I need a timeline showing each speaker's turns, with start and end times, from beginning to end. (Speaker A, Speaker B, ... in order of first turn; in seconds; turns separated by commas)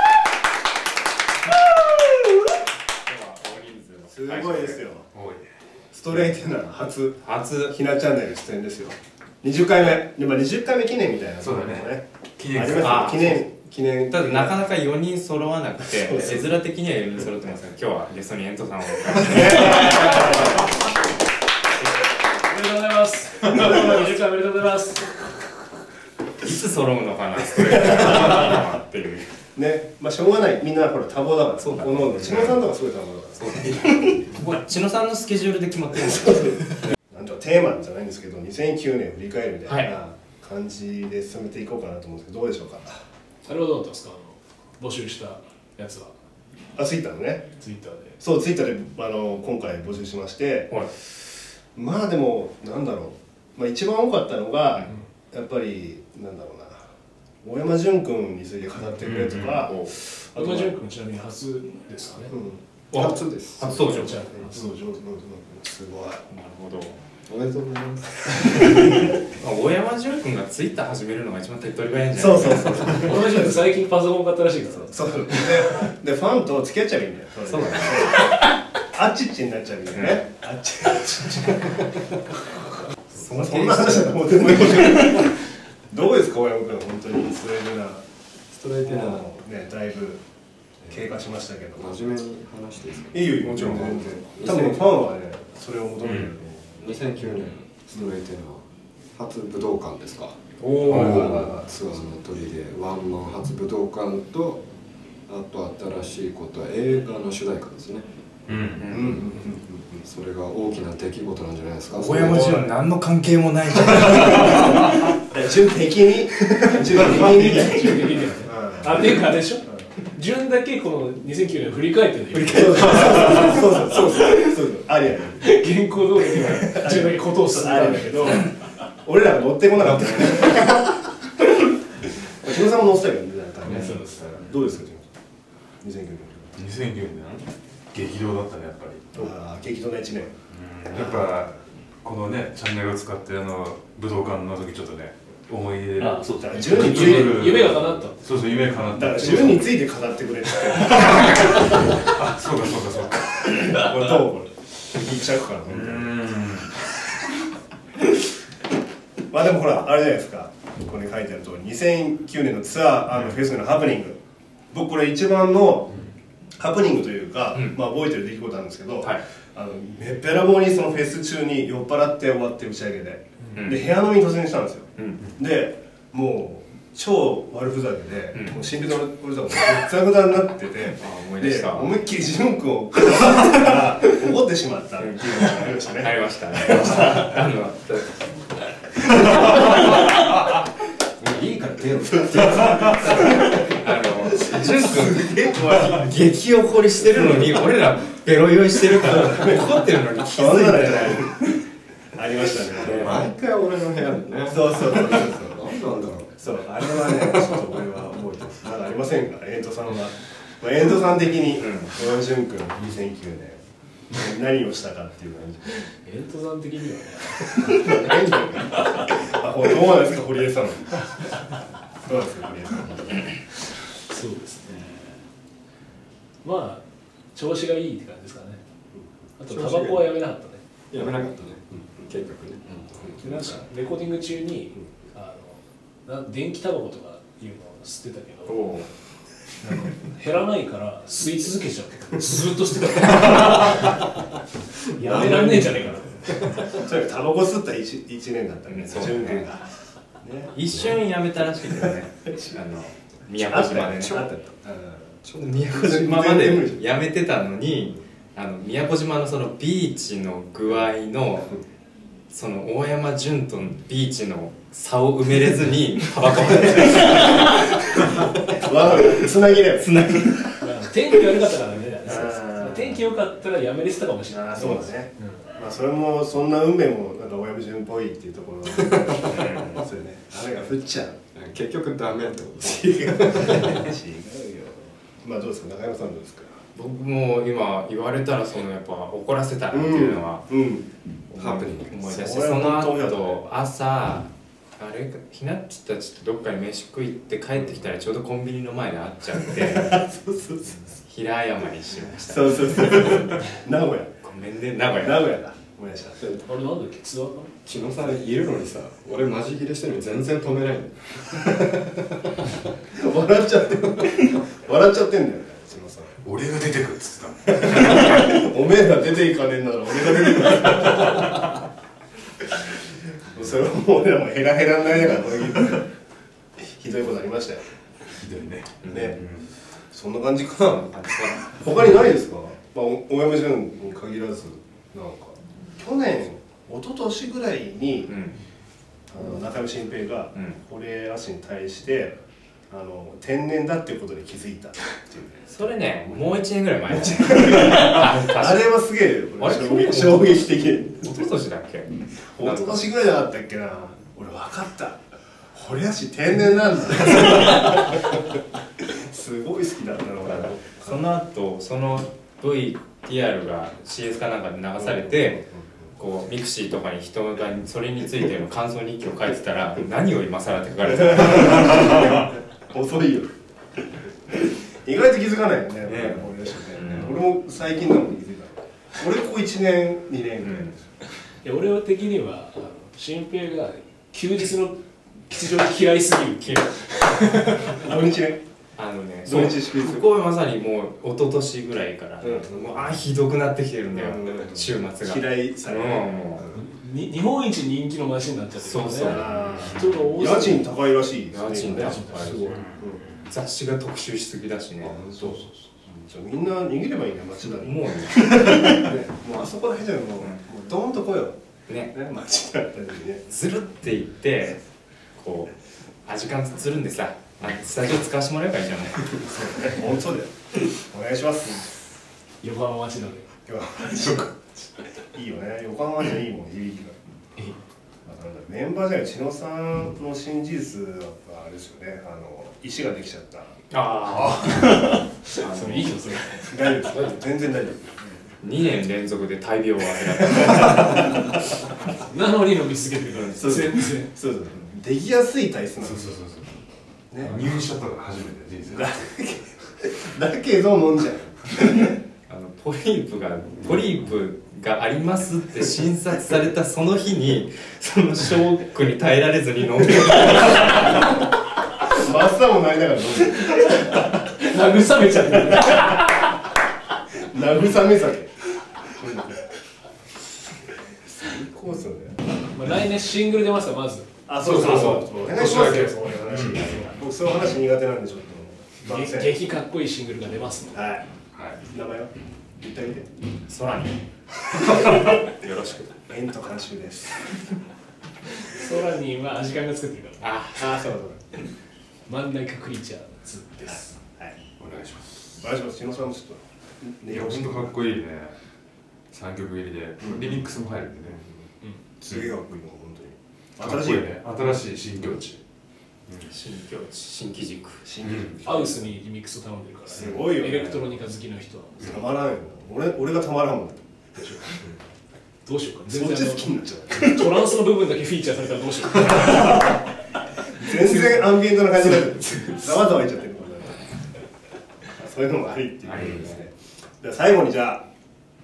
Speaker A: 3.0-4.8, Speaker B: 4.1-5.1, Speaker C: 5.1-5.5, Speaker B: 5.9-14.7, Speaker A: 7.2-7.8, Speaker C: 11.4-13.4, Speaker A: 12.8-13.3, Speaker A: 14.1-20.7, Speaker B: 15.9-16.5, Speaker B: 19.1-20.7, Speaker D: 22.2-25.2, Speaker B: 23.5-24.1, Speaker A: 26.4-29.3, Speaker B: 29.6-34.3, Speaker A: 31.6-32.6, Speaker A: 33.4-36.9, Speaker B: 36.1-43.0, Speaker A: 39.7-39.9, Speaker D: 43.5-46.1, Speaker B: 46.8-47.5, Speaker D: 47.6-48.2, Speaker B: 48.2-56.9, Speaker B: 57.4-60.8, Speaker C: 59.0-59.6, Speaker A: 59.6-59.9, Speaker D: 60.4-62.3, Speaker B: 62.3-62.6, Speaker A: 62.9-64.3, Speaker E: 62.9-63.8, Speaker D: 63.7-64.8, Speaker B: 64.3-66.2, Speaker A: 66.3-67.0, Speaker E: 67.3-68.9, Speaker A: 68.7-73.2, Speaker B: 72.1-73.7, Speaker D: 72.9-75.7, Speaker B: 74.8-78.3, Speaker A: 77.5-78.2, Speaker B: 78.9-82.2, Speaker A: 79.9-80.2, Speaker B: 83.1-88.0, Speaker A: 83.1-85.2, Speaker E: 88.5-89.3, Speaker B: 88.8-90.2, Speaker B: 90.9-91.9, Speaker E: 91.8-95.0, Speaker B: 93.1-97.0, Speaker C: 96.0-96.3, Speaker E: 96.8-100.4, Speaker A: 100.6-101.4, Speaker C: 100.9-101.5, Speaker E: 100.9-104.7, Speaker B: 101.1-101.7, Speaker E: 105.3-108.1, Speaker C: 108.5-108.9, Speaker A: 108.8-109.2, Speaker B: 108.9-110.0, Speaker E: 109.0-109.4, Speaker E: 110.0-112.5, Speaker A: 111.9-115.1, Speaker B: 112.2-112.7, Speaker B: 115.3-119.9, Speaker D: 116.9-124.5, Speaker B: 122.5-125.5, Speaker D: 125.4-128.5, Speaker B: 126.6-128.5, Speaker B: 129.0-131.0, Speaker B: 132.2-135.1, Speaker D: 133.7-134.4, Speaker C: 133.7-134.0, Speaker B: 135.8-136.5, Speaker C: 136.6-139.3, Speaker B: 139.2-140.4, Speaker C: 140.5-149.7, Speaker B: 140.9-141.3, Speaker D: 146.0-148.2, Speaker B: 146.3-147.6, Speaker B: 148.9-151.7, Speaker C: 150.8-153.9, Speaker B: 153.6-156.3, Speaker C: 155.7-156.8, Speaker B: 159.3-164.2, Speaker B: 164.7-166.1, Speaker B: 166.6-187.4, Speaker A: 167.5-167.8, Speaker A: 173.6-173.9, Speaker A: 175.0-175.2, Speaker A: 178.3-178.6, Speaker A: 180.9-181.9, Speaker A: 185.0-188.3, Speaker A: 188.9-190.1, Speaker E: 191.2-193.4, Speaker A: 192.4-201.4, Speaker B: 195.2-195.9, Speaker B: 197.1-197.6, Speaker B: 198.9-201.4, Speaker B: 202.1-203.2, Speaker E: 202.8-206.4, Speaker B: 204.5-205.8, Speaker B: 206.3-215.8, Speaker A: 211.6-212.0, Speaker D: 215.9-219.1, Speaker B: 217.5-221.1, Speaker B: 222.0-223.4, Speaker D: 223.9-225.2, Speaker D: 226.4-228.6, Speaker D: 229.4-230.6, Speaker E: 229.5-230.1, Speaker E: 230.9-233.4, Speaker D: 233.2-238.7, Speaker A: 238.5-238.9, Speaker D: 239.6-244.2, Speaker D: 244.8-246.7, Speaker B: 245.1-245.8, Speaker B: 246.6-250.8, Speaker A: 248.7-249.5, Speaker A: 250.5-254.3, Speaker B: 253.4-256.9, Speaker E: 254.0-254.6, Speaker E: 255.2-255.6, Speaker A: 255.4-261.6, Speaker A: 262.3-270.6, Speaker B: 266.7-267.5, Speaker B: 268.1-270.3, Speaker D: 270.6-275.5, Speaker B: 272.0-273.0, Speaker B: 274.3-281.2, Speaker A: 279.3-279.8, Speaker E: 281.3-283.8, Speaker B: 282.6-286.6, Speaker A: 286.8-290.5, Speaker B: 289.7-290.9, Speaker A: 291.3-300.0, Speaker E: 291.4-291.9, Speaker B: 292.0-293.5, Speaker B: 299.4-300.9, Speaker A: 300.6-303.3, Speaker B: 302.2-304.1, Speaker A: 304.2-305.3, Speaker B: 305.0-306.2, Speaker E: 306.2-306.5, Speaker D: 306.4-307.5, Speaker E: 307.6-312.2, Speaker B: 312.9-316.2, Speaker C: 316.2-318.0, Speaker B: 317.5-321.4, Speaker B: 322.4-325.9, Speaker B: 326.6-327.7, Speaker C: 328.2-329.5, Speaker A: 328.8-329.2, Speaker B: 328.9-329.2, Speaker B: 329.9-330.9, Speaker A: 330.6-331.6, Speaker B: 331.4-338.2, Speaker A: 338.1-338.4, Speaker B: 339.1-351.2, Speaker A: 340.3-340.6, Speaker A: 345.5-348.7, Speaker A: 349.4-350.4, Speaker A: 351.0-352.9, Speaker B: 352.3-355.0, Speaker B: 355.5-358.2, Speaker B: 358.8-361.1, Speaker A: 360.2-365.4, Speaker B: 364.8-365.9, Speaker A: 366.0-371.9, Speaker B: 371.1-373.4, Speaker B: 374.3-380.8, Speaker A: 375.9-377.2, Speaker A: 380.4-380.7, Speaker D: 381.4-387.9, Speaker B: 387.7-388.4, Speaker A: 388.8-396.4, Speaker B: 389.2-390.1, Speaker B: 392.2-393.0, Speaker B: 393.9-396.6, Speaker D: 396.5-400.7, Speaker A: 398.6-399.8, Speaker B: 399.0-403.0, Speaker A: 401.3-402.5, Speaker D: 401.8-402.6, Speaker C: 402.4-403.3, Speaker A: 403.3-405.4, Speaker B: 404.8-411.4, Speaker A: 407.4-408.7, Speaker A: 411.7-411.9, Speaker B: 411.9-413.2, Speaker A: 413.3-414.6, Speaker A: 415.1-415.5, Speaker A: 416.1-419.2, Speaker B: 419.1-421.9, Speaker D: 422.4-423.3, Speaker B: 423.5-424.3, Speaker B: 425.1-427.0, Speaker B: 428.1-433.6, Speaker A: 433.7-434.8, Speaker D: 434.4-436.8, Speaker A: 435.3-436.1, Speaker B: 436.5-438.2, Speaker A: 438.4-441.4, Speaker B: 440.7-441.3, Speaker D: 442.0-444.1, Speaker A: 443.1-443.4, Speaker B: 443.4-446.1, Speaker C: 445.8-446.6, Speaker B: 447.1-447.4, Speaker C: 447.2-449.0, Speaker B: 448.7-452.0, Speaker A: 452.3-461.1, Speaker B: 461.9-463.6, Speaker D: 463.4-466.4, Speaker B: 467.2-469.4, Speaker B: 470.9-472.2, Speaker D: 472.5-476.9, Speaker B: 474.3-479.5, Speaker C: 474.4-475.0, Speaker C: 475.7-476.6, Speaker D: 478.8-480.8, Speaker B: 480.7-481.1, Speaker C: 481.3-481.6, Speaker B: 481.7-483.1, Speaker A: 483.5-486.0, Speaker B: 484.8-485.2, Speaker B: 486.1-487.4, Speaker D: 488.4-490.3, Speaker A: 490.2-490.9, Speaker B: 490.6-491.2, Speaker D: 492.1-494.0, Speaker C: 494.6-495.5, Speaker B: 495.4-497.8, Speaker C: 497.0-498.4, Speaker C: 499.1-501.2, Speaker B: 500.0-500.4, Speaker B: 501.1-504.1, Speaker C: 503.6-505.4, Speaker C: 506.1-506.3, Speaker A: 506.3-507.9, Speaker B: 507.8-508.9, Speaker C: 508.0-508.4, Speaker D: 508.4-512.0, Speaker B: 509.9-510.8, Speaker B: 511.8-513.9, Speaker D: 514.2-514.8, Speaker D: 515.5-519.8, Speaker B: 515.9-517.2, Speaker B: 520.6-523.8, Speaker D: 520.6-521.3, Speaker D: 521.9-522.6, Speaker B: 525.0-527.9, Speaker A: 525.9-526.4